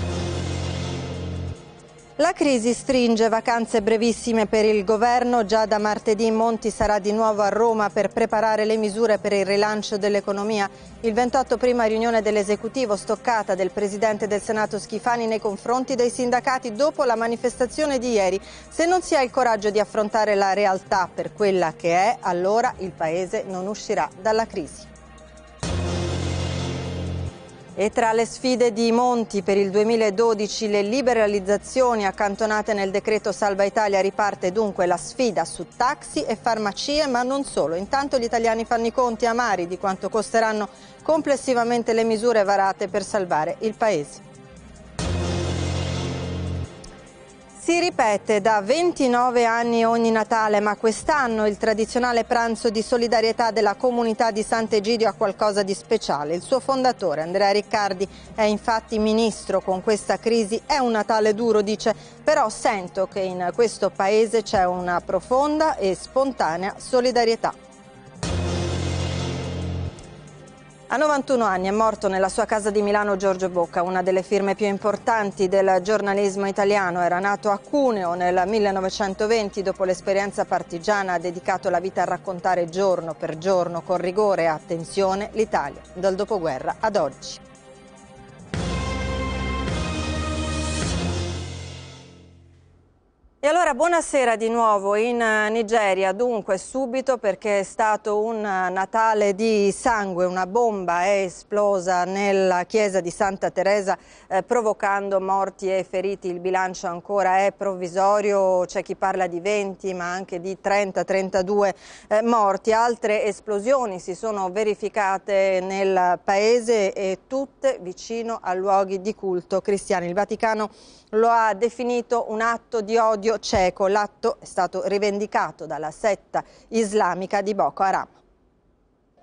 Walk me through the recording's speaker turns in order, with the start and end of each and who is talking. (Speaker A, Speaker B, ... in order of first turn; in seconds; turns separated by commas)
Speaker A: 2.2-24.9, Speaker A: 27.8-44.2, Speaker A: 47.6-67.5, Speaker A: 70.9-87.4, Speaker A: 93.4-128.1